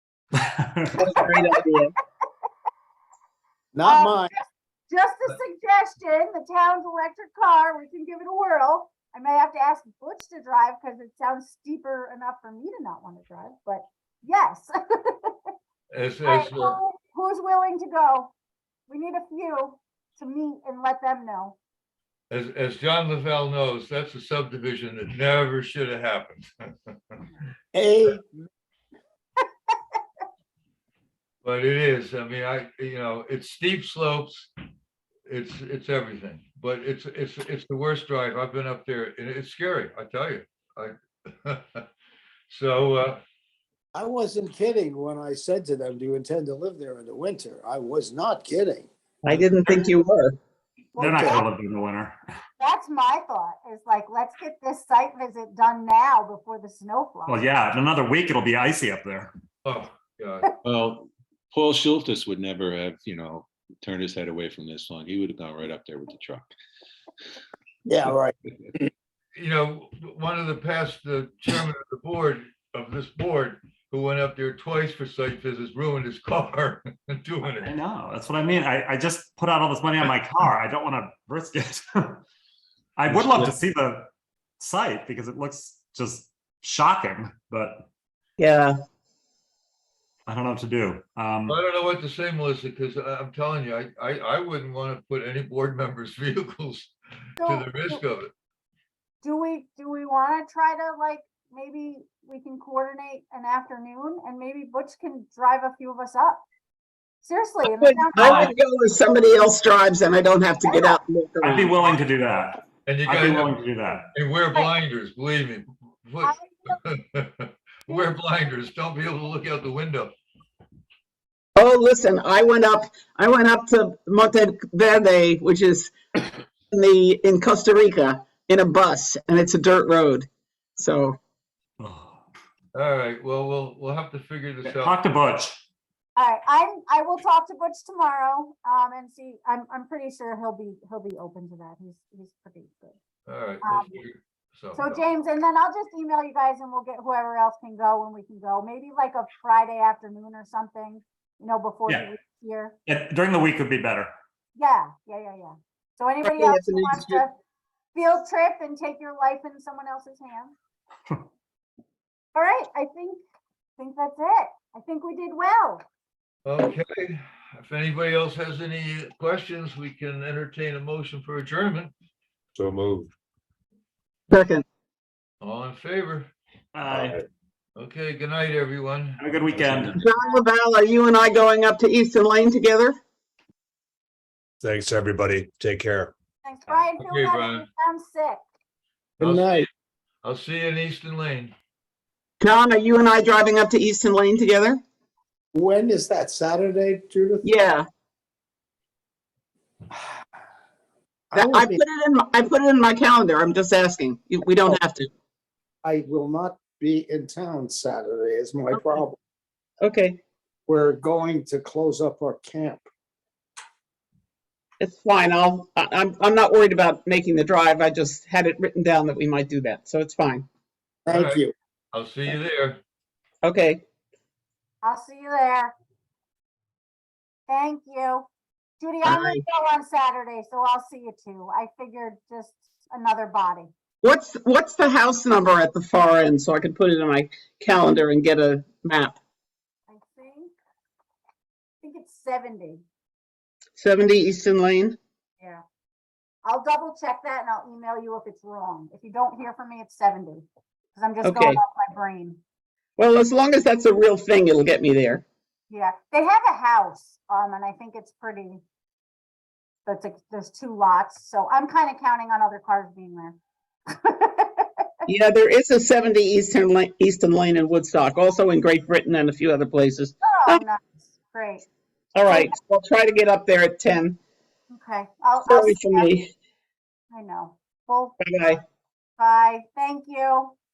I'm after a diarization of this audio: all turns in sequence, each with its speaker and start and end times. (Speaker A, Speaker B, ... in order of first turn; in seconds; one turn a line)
Speaker A: 0.4-1.1
Speaker B: 1.0-1.9
Speaker C: 3.7-4.3
Speaker D: 3.9-15.4
Speaker E: 15.9-16.8
Speaker D: 16.2-18.3
Speaker D: 18.9-21.6
Speaker E: 22.3-27.2
Speaker C: 27.7-28.4
Speaker E: 31.4-34.5
Speaker E: 35.3-41.8
Speaker E: 42.5-43.2
Speaker C: 44.0-48.9
Speaker B: 49.2-50.4
Speaker A: 49.3-49.9
Speaker D: 51.0-51.5
Speaker A: 51.0-52.2
Speaker D: 52.6-57.4
Speaker A: 57.3-59.3
Speaker E: 59.6-60.5
Speaker F: 60.6-66.5
Speaker C: 67.9-68.3
Speaker E: 69.4-77.7
Speaker A: 77.6-82.2
Speaker A: 83.0-87.9
Speaker E: 83.1-83.5
Speaker B: 88.4-88.8
Speaker A: 90.3-91.6
Speaker E: 91.5-98.3
Speaker D: 97.4-98.0
Speaker D: 99.2-106.5
Speaker D: 107.2-108.5
Speaker B: 107.6-111.8
Speaker A: 108.2-108.5
Speaker D: 110.6-111.0
Speaker A: 111.4-114.1
Speaker E: 112.8-113.6
Speaker E: 114.1-120.1
Speaker D: 116.2-116.8
Speaker B: 121.6-131.2
Speaker A: 131.8-132.2
Speaker E: 132.8-135.0
Speaker A: 134.7-135.6
Speaker D: 136.2-143.0
Speaker E: 143.3-145.0
Speaker D: 143.6-144.0
Speaker D: 144.8-152.8
Speaker A: 152.9-154.1
Speaker D: 154.6-157.3
Speaker B: 156.2-157.2
Speaker D: 157.9-160.6
Speaker D: 162.3-163.2
Speaker D: 163.8-165.8
Speaker E: 166.4-171.9
Speaker G: 172.6-173.1
Speaker B: 174.3-174.7
Speaker E: 175.4-176.3
Speaker A: 176.7-177.2
Speaker E: 177.8-180.0
Speaker A: 179.2-180.0
Speaker B: 179.8-183.0
Speaker G: 184.6-186.1
Speaker D: 186.4-188.4
Speaker E: 186.7-187.7
Speaker C: 189.2-189.7
Speaker E: 189.2-189.7
Speaker E: 190.2-191.5
Speaker B: 192.4-194.8
Speaker C: 195.5-197.5
Speaker B: 197.4-197.8
Speaker C: 201.3-201.8
Speaker B: 201.4-205.1
Speaker C: 205.8-209.2
Speaker B: 209.8-210.2
Speaker C: 210.7-212.8
Speaker B: 214.8-220.5
Speaker C: 221.1-221.5
Speaker E: 221.1-222.8
Speaker B: 223.4-223.8
Speaker D: 224.8-225.7
Speaker D: 227.5-228.3
Speaker D: 228.8-233.7
Speaker B: 229.1-229.4
Speaker B: 234.0-239.2
Speaker D: 239.9-240.5
Speaker D: 241.8-242.8
Speaker B: 243.8-245.0
Speaker D: 246.4-252.4
Speaker B: 251.2-251.6
Speaker B: 253.0-255.2
Speaker D: 255.7-258.6
Speaker D: 259.9-264.9
Speaker B: 265.1-270.6
Speaker D: 270.2-271.7
Speaker B: 272.1-274.2
Speaker D: 274.7-276.1
Speaker B: 275.4-276.3
Speaker D: 277.1-278.2
Speaker B: 278.2-278.6
Speaker D: 279.2-280.6